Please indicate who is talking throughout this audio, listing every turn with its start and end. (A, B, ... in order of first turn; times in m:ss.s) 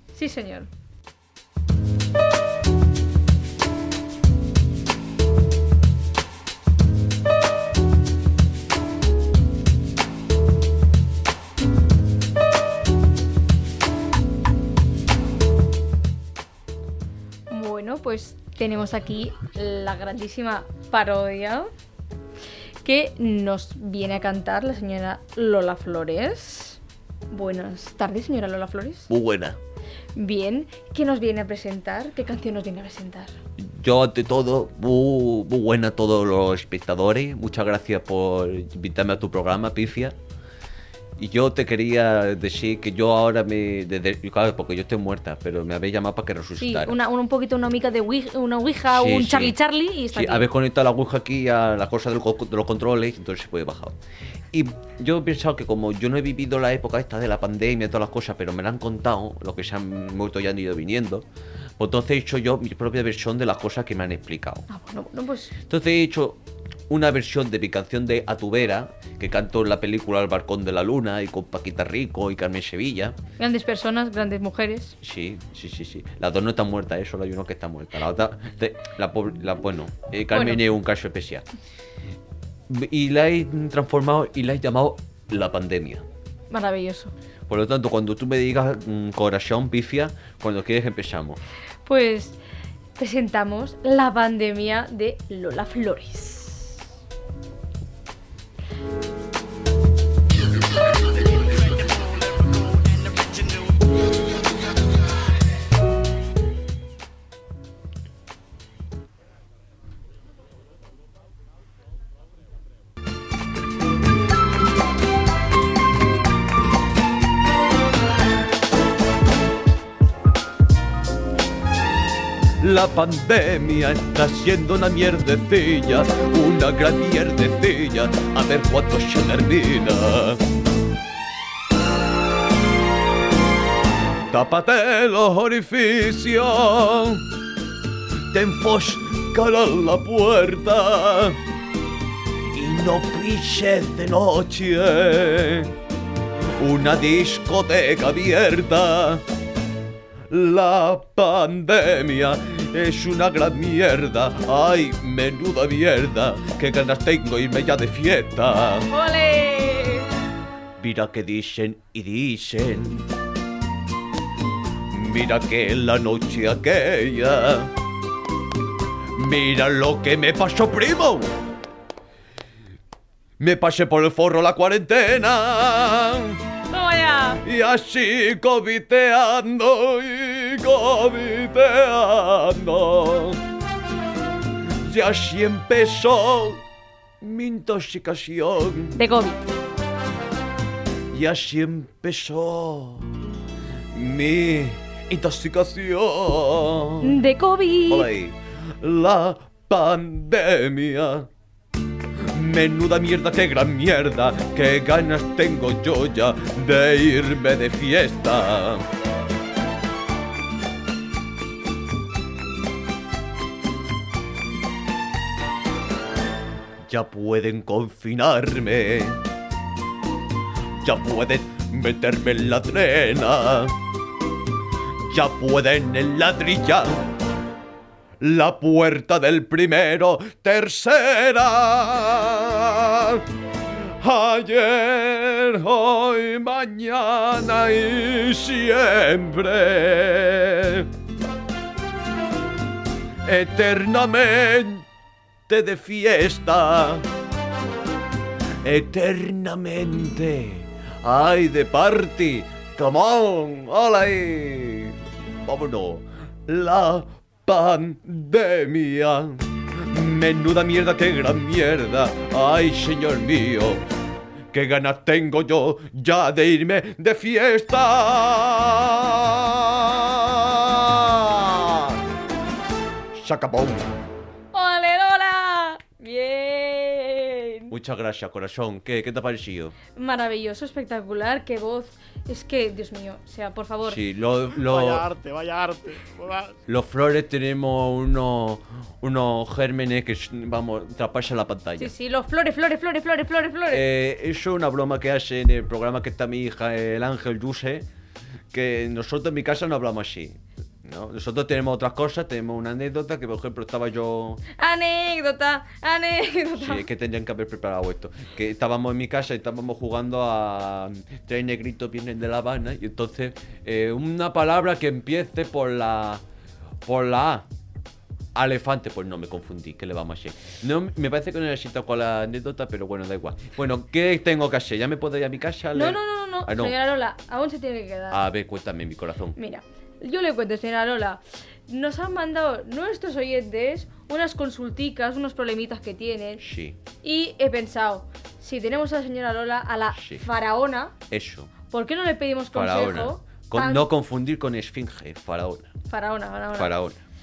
0:00.1-0:00.7 A
0:17.5-0:21.7 A
0:22.8-0:26.8 A
0:27.3-0:29.1 A
0:29.1-0:29.6 B
0:30.2-0:33.3 A
0:33.6-0:40.1 B
0:41.2-0:47.0 B
0:46.6-0:50.4 A
0:48.9-0:49.5 B
0:50.1-0:54.0 B
0:54.5-1:01.2 B
1:01.8-1:04.6 B
1:04.7-1:05.5 A
1:05.7-1:13.1 B
1:13.4-1:14.9 A
1:15.0-1:21.4 B
1:20.3-1:20.6 A
1:22.7-1:26.0 B
1:26.5-1:27.1 A
1:27.5-1:31.4 B
1:31.8-1:32.4 A
1:33.0-1:36.8 A
2:02.6-2:10.4 B
2:14.3-2:17.2 B
2:18.3-2:21.4 B
2:22.5-2:25.8 B
2:26.6-2:29.2 B
2:30.3-2:38.9 B
2:38.9-2:40.1 A
2:40.8-2:43.0 B
2:44.9-2:47.7 B
2:49.2-2:51.3 B
2:53.4-2:56.4 B
2:56.7-2:57.4 A
2:57.4-3:03.4 B
3:04.8-3:06.6 B
3:07.2-3:09.0 B
3:08.9-3:09.4 A
3:11.1-3:13.2 B
3:13.9-3:17.2 B
3:17.0-3:18.1 A
3:17.9-3:21.3 B
3:22.2-3:28.9 B
3:36.9-3:39.2 B
3:40.8-3:43.8 B
3:45.1-3:47.1 B
3:48.2-3:53.2 B
3:53.8-4:00.9 B
4:03.2-4:04.8 B
4:05.5-4:07.0 B
4:08.6-4:23.8 B
4:24.5-4:32.0 B
4:33.1-4:33.9 B
4:34.5-4:37.7 A
4:37.7-4:39.8 B
4:40.0-4:44.0 A
4:43.8-4:45.1 B
4:44.6-4:46.6 C
4:46.7-4:51.9 B
4:51.8-4:53.8 A
4:53.7-4:57.8 B
4:58.5-5:04.4 B
5:04.6-5:06.8 A
5:06.6-5:16.2 B
5:16.8-5:17.4 B
5:18.4-5:26.8 B
5:25.7-5:28.2 A
5:28.1-5:29.4 B
5:29.4-5:36.4 A
5:36.4-5:36.8 B
5:37.0-5:40.9 A
5:39.9-5:40.2 B
5:41.1-5:41.5 B
5:41.7-5:43.9 A
5:42.5-5:45.7 B
5:45.9-5:46.7 A
5:46.5-5:47.0 B